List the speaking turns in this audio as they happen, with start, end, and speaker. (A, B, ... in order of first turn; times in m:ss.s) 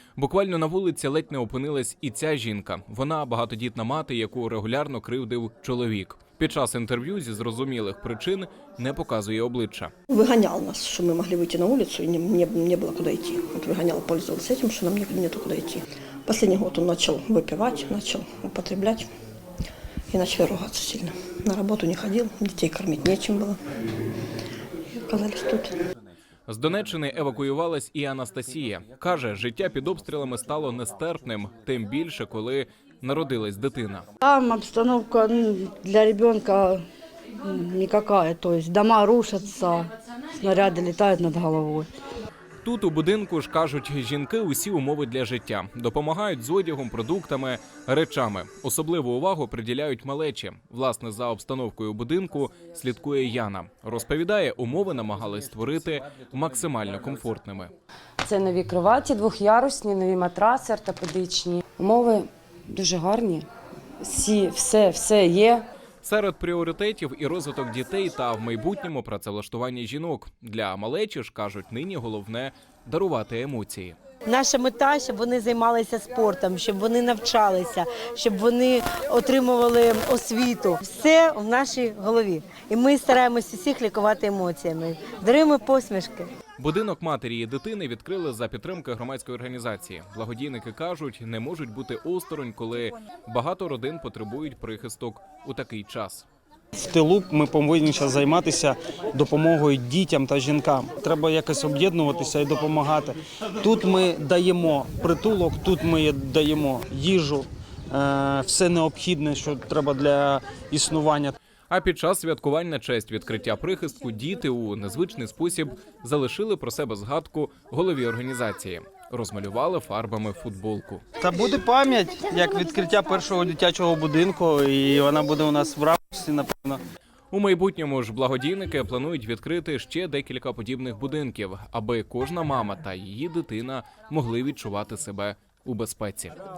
0:00.2-0:09.9 A
0:10.1-0:19.1 B
0:20.1-0:23.6 B
0:24.9-0:25.7 B
0:26.5-0:34.1 A
0:34.2-0:36.8 C
0:37.4-0:41.9 C
0:42.6-0:57.7 A
0:58.2-1:03.5 D
1:04.0-1:05.6 D
1:06.0-1:14.0 A
1:14.3-1:26.3 E
1:26.6-1:36.2 A
1:36.7-1:51.3 F
1:51.7-2:01.0 A
2:01.2-2:06.8 F
2:07.3-2:16.4 A